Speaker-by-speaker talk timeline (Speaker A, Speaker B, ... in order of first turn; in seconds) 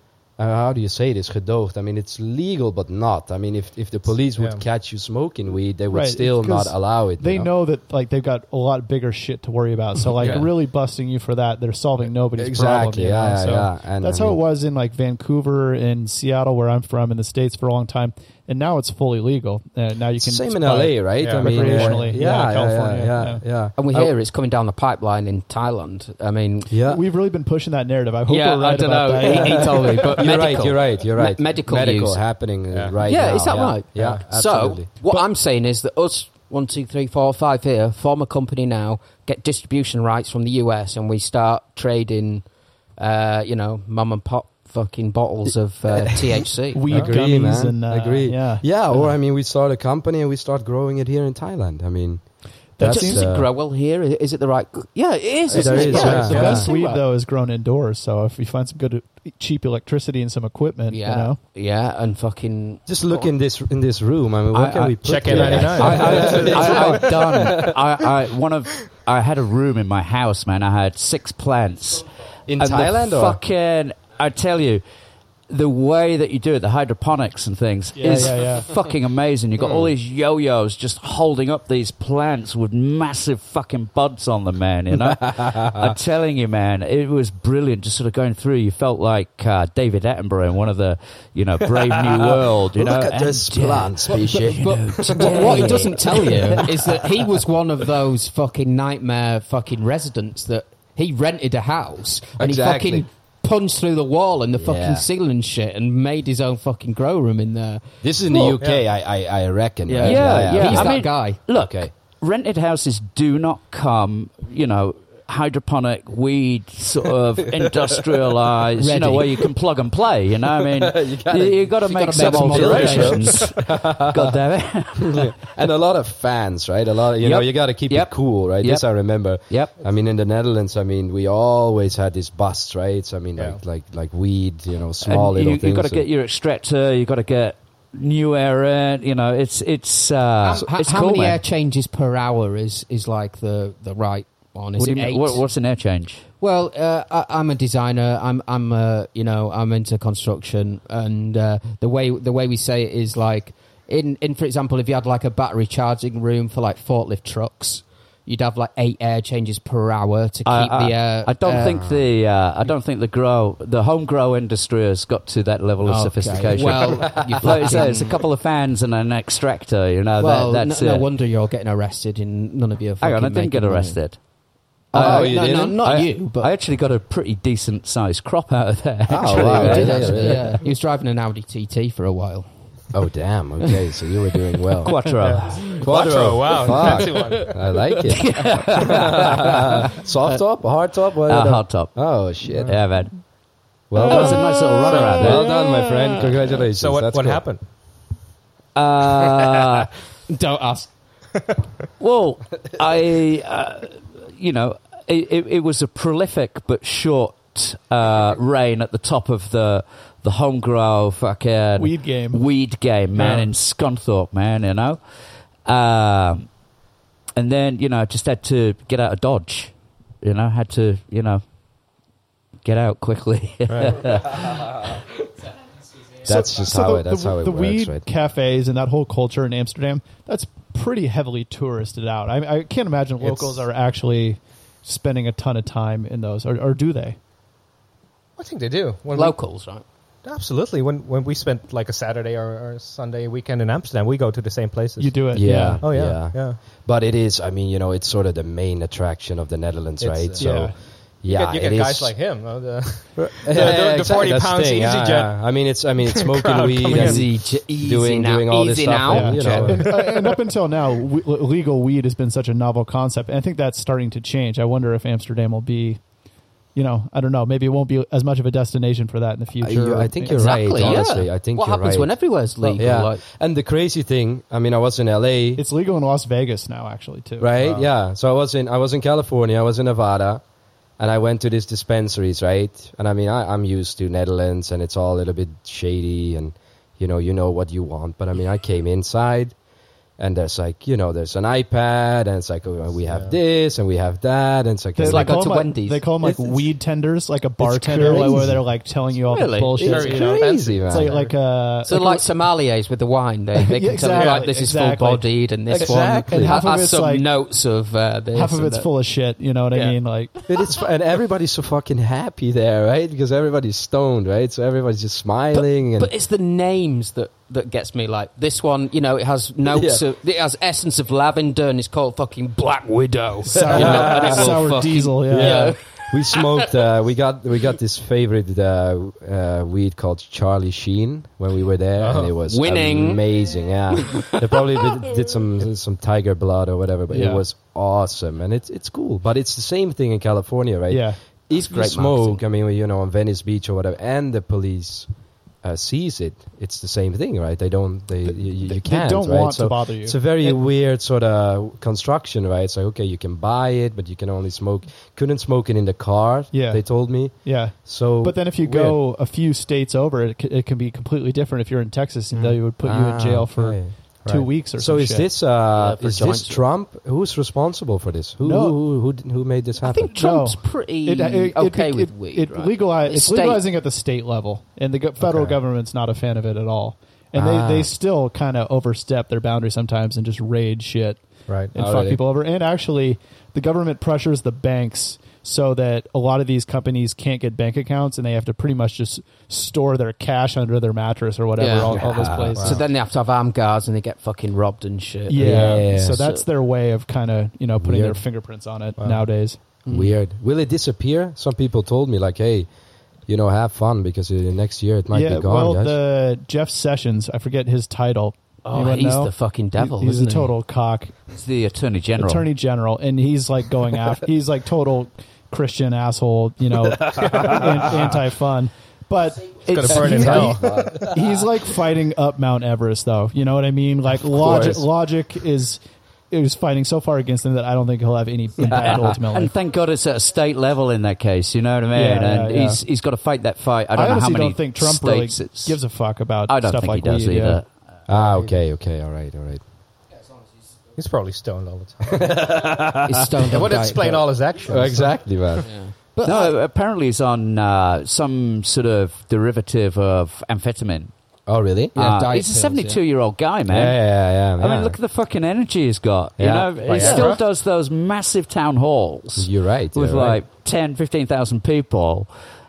Speaker A: 0.4-7.5, 12.3-14.4, 20.2-24.1, 26.7-27.0, 29.7-34.9, 46.9-53.5, 55.5-56.7, 62.9-67.8, 72.5-73.4, 79.6-79.9, 84.9-86.0, 92.1-96.8, 102.4-103.1, 104.5-105.0, 108.0-111.9, 120.5-124.4, 125.0-136.1, 161.7-162.1, 174.9-175.8, 179.1-180.5, 182.9-185.0, 185.7-192.8, 193.9-197.4, 226.2-228.1, 245.3-252.2, 253.2-260.1, 269.6-275.6, 277.4-280.4, 281.0-289.6, 290.2-295.5, 296.2-296.6, 298.0-298.6, 299.8-301.1, 305.7-306.6, 310.5-316.1, 319.6-320.0, 323.6-324.5, 325.3-345.1, 345.6-359.0, 362.8-363.9, 364.7-370.1, 375.2-375.6, 377.3-377.9, 381.7-382.2, 391.9-392.7, 395.4-396.2, 397.8-398.2, 399.9-402.7, 403.3-405.9, 417.0-417.7, 419.9-421.2, 424.2-424.9, 428.6-429.1, 438.1-439.6, 442.1-443.6, 444.6-445.7, 451.5-451.9, 453.7-455.0, 456.4-457.3, 459.4-460.4
Speaker B: 4.4-4.6, 10.2-10.5, 21.2-22.1, 32.7-33.0, 46.9-47.1, 55.6-56.6, 65.0-67.2, 108.6-108.8, 185.2-187.5, 194.8-195.4, 196.7-197.6, 223.7-224.2, 233.2-233.6, 238.4-239.4, 240.2-246.6, 250.0-257.3, 293.1-293.4, 297.6-298.5, 299.7-301.4, 304.1-304.5, 332.0-332.3, 399.0-399.2, 419.6-421.1, 438.1-438.5, 440.9-442.4, 443.5-445.6, 456.9-457.4
Speaker C: 5.9-23.4, 26.8-30.2, 46.7-49.1, 52.8-53.2, 55.6-61.4, 78.0-78.7, 211.8-212.4, 213.2-213.5, 226.3-237.2, 245.0-245.8, 250.4-250.8, 259.1-266.0, 266.7-270.9, 275.6-277.7, 294.9-302.3, 303.6-307.3, 308.3-310.3, 323.5-325.7, 337.1-337.4, 340.9-341.2, 348.3-350.6, 356.5-365.4, 368.4-368.8, 370.1-392.8, 395.3-399.6, 405.1-411.2, 412.1-429.5, 431.9-432.8, 433.9-437.6
Speaker D: 23.8-26.7, 28.3-32.2, 33.0-46.8, 52.8-57.0, 60.9-63.3, 64.5-66.9, 94.3-108.5, 109.9-111.4, 118.8-119.4, 121.8-123.3, 140.4-145.4, 146.4-161.8, 165.9-168.2, 170.2-174.0, 174.9-176.5, 179.3-182.5, 188.3-188.9, 200.3-200.9, 239.1-239.8, 256.9-259.9, 270.3-273.2, 295.0-296.1, 297.9-298.4, 301.8-308.9, 309.7-310.0, 315.5-325.8, 332.4-333.4, 334.1-334.3, 341.5-342.4, 365.7-366.6, 369.8-373.6, 391.6-396.4, 399.9-400.1, 408.6-410.5, 443.0-444.3, 445.6-446.5, 451.9-453.0, 456.9-457.3
Speaker E: 65.3-72.1, 72.6-74.8, 75.5-96.6, 110.0-125.3, 127.2-129.7, 135.0-141.4, 144.8-146.2, 160.4-171.1, 173.0-174.2, 174.9-180.4, 184.8-185.8, 188.2-189.5, 191.3-193.2, 194.0-195.5, 198.8-199.9, 202.0-215.0, 215.6-216.5, 217.3-221.4, 222.6-224.9, 299.3-299.7, 411.3-412.4, 428.7-435.8, 436.5-437.7, 446.2-451.1, 451.9-462.3